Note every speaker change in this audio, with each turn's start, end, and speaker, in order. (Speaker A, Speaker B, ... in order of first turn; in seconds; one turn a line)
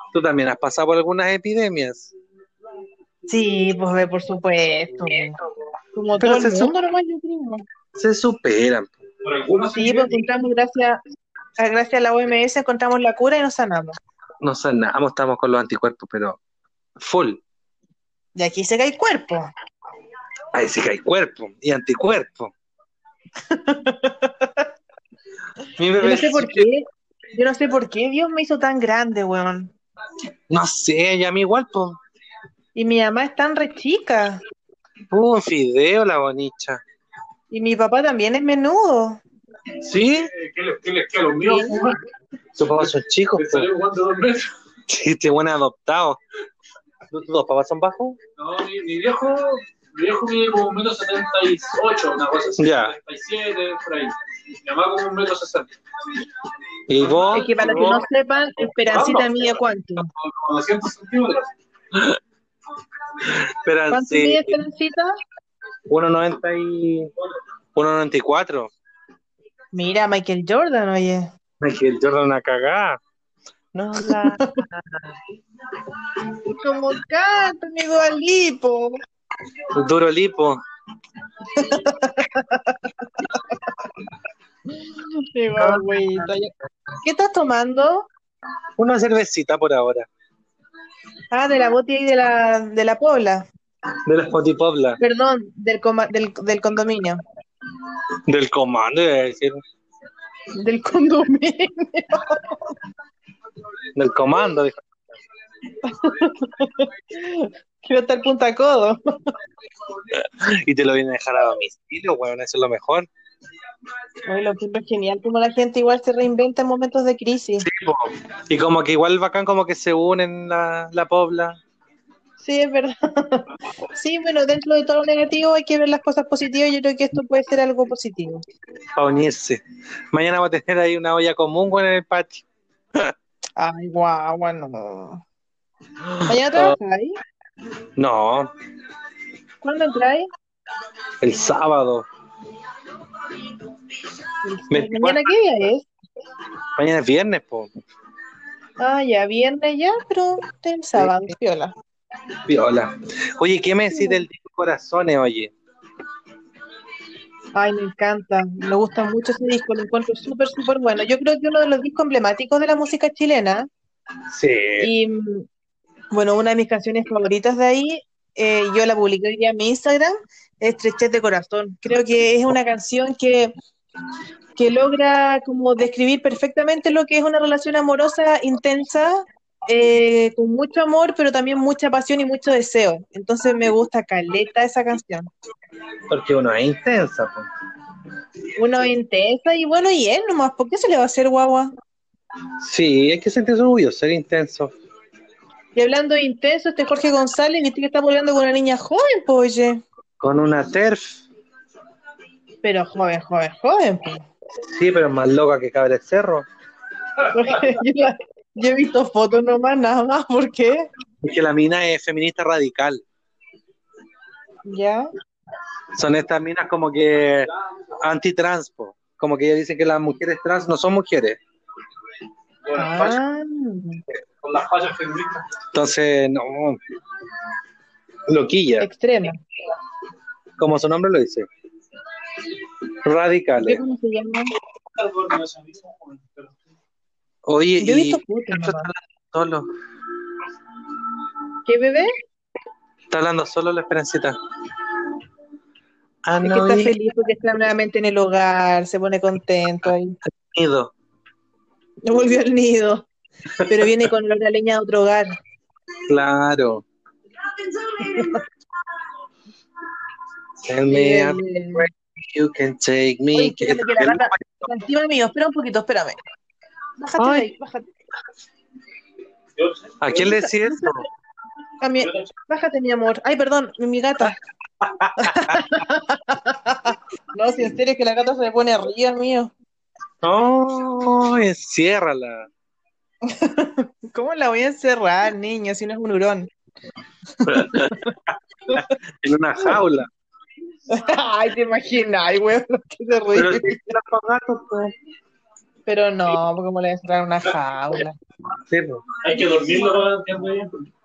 Speaker A: 0.1-2.1
Speaker B: 3.3-5.4
Speaker B: 6.0-7.7
Speaker A: 6.2-6.7
Speaker A: 8.0-9.0
Speaker C: 9.2-10.2
Speaker B: 9.7-11.0
Speaker B: 11.6-14.0
Speaker A: 14.4-16.4
Speaker A: 17.0-17.4
Speaker B: 18.4-19.5
Speaker A: 20.5-22.5
Speaker B: 23.5-24.6
Speaker A: 25.8-26.7
Speaker B: 26.0-29.7
Speaker A: 30.5-32.0
Speaker B: 32.8-34.4
Speaker A: 35.1-36.8
Speaker B: 37.5-39.2
Speaker A: 39.8-40.3
Speaker C: 40.3-42.0
Speaker B: 41.4-41.8
Speaker A: 42.6-43.7
Speaker C: 42.8-44.5
Speaker A: 44.9-46.2
Speaker A: 47.1-48.2
Speaker C: 48.4-55.7
Speaker A: 52.6-53.0
Speaker A: 56.9-58.1
Speaker C: 57.0-58.0
Speaker B: 57.3-60.1
Speaker C: 58.8-59.5
Speaker C: 60.2-61.5
Speaker A: 63.2-64.6
Speaker B: 63.9-65.2
Speaker A: 65.9-67.1
Speaker A: 67.8-68.7
Speaker B: 69.7-71.3
Speaker A: 71.6-73.0
Speaker A: 73.7-75.1
Speaker B: 74.1-74.6
Speaker B: 76.4-79.0
Speaker A: 79.7-80.6
Speaker B: 81.5-83.4
Speaker B: 84.8-86.5
Speaker A: 85.6-86.3
Speaker B: 87.0-88.1
Speaker A: 88.8-90.1
Speaker B: 91.3-93.5
Speaker A: 94.1-95.0
Speaker B: 95.0-97.2
Speaker A: 98.3-99.6
Speaker B: 100.5-102.7
Speaker A: 104.0-104.8
Speaker B: 105.8-109.0
Speaker A: 110.1-113.1
Speaker B: 114.2-117.7
Speaker A: 117.6-121.6
Speaker B: 122.4-128.4
Speaker A: 129.0-133.1
Speaker B: 133.6-135.2
Speaker A: 136.0-136.8
Speaker B: 136.2-137.1
Speaker A: 138.0-138.5
Speaker B: 139.6-140.3
Speaker A: 141.2-142.1
Speaker B: 144.4-145.9
Speaker A: 144.7-145.3
Speaker A: 146.8-147.7
Speaker B: 148.8-151.7
Speaker A: 152.4-155.5
Speaker B: 153.9-154.2
Speaker B: 157.5-163.7
Speaker A: 164.3-164.9
Speaker B: 164.8-165.5
Speaker B: 166.1-173.5
Speaker B: 174.6-185.3
Speaker A: 186.1-187.5
Speaker B: 188.6-191.7
Speaker A: 192.6-194.7
Speaker B: 195.8-199.8
Speaker A: 200.2-201.2
Speaker B: 202.6-204.3
Speaker A: 204.7-206.5
Speaker B: 207.2-210.9
Speaker A: 211.2-213.0
Speaker B: 214.7-215.1
Speaker A: 215.9-221.4
Speaker C: 222.7-223.2
Speaker B: 222.7-224.0
Speaker C: 224.4-225.4
Speaker A: 225.7-226.8
Speaker A: 228.3-228.9
Speaker B: 228.8-229.4
Speaker A: 230.6-231.5
Speaker A: 233.0-233.8
Speaker B: 233.6-234.5
Speaker C: 234.9-236.6
Speaker A: 237.5-239.7
Speaker B: 237.8-238.9
Speaker B: 241.7-242.1
Speaker A: 243.1-244.4
Speaker A: 246.2-246.9
Speaker B: 246.4-250.2
Speaker A: 250.3-250.9
Speaker B: 252.1-253.1
Speaker A: 253.6-253.9
Speaker B: 253.7-255.3
Speaker A: 256.1-256.9
Speaker B: 258.0-258.4
Speaker A: 260.6-264.7
Speaker B: 260.9-261.9
Speaker B: 263.3-266.2
Speaker B: 267.0-267.9
Speaker A: 267.2-267.5
Speaker C: 269.6-270.3
Speaker A: 270.0-271.1
Speaker B: 270.2-271.0
Speaker B: 271.8-274.4
Speaker C: 272.0-272.3
Speaker A: 274.8-275.6
Speaker B: 275.2-279.5
Speaker A: 280.2-282.5
Speaker B: 283.2-286.5
Speaker B: 287.4-288.2
Speaker A: 287.4-288.0
Speaker B: 288.7-289.0
Speaker A: 288.8-290.1
Speaker B: 290.9-293.8
Speaker A: 293.3-294.9
Speaker B: 295.9-298.2
Speaker A: 298.6-299.1
Speaker C: 299.2-300.9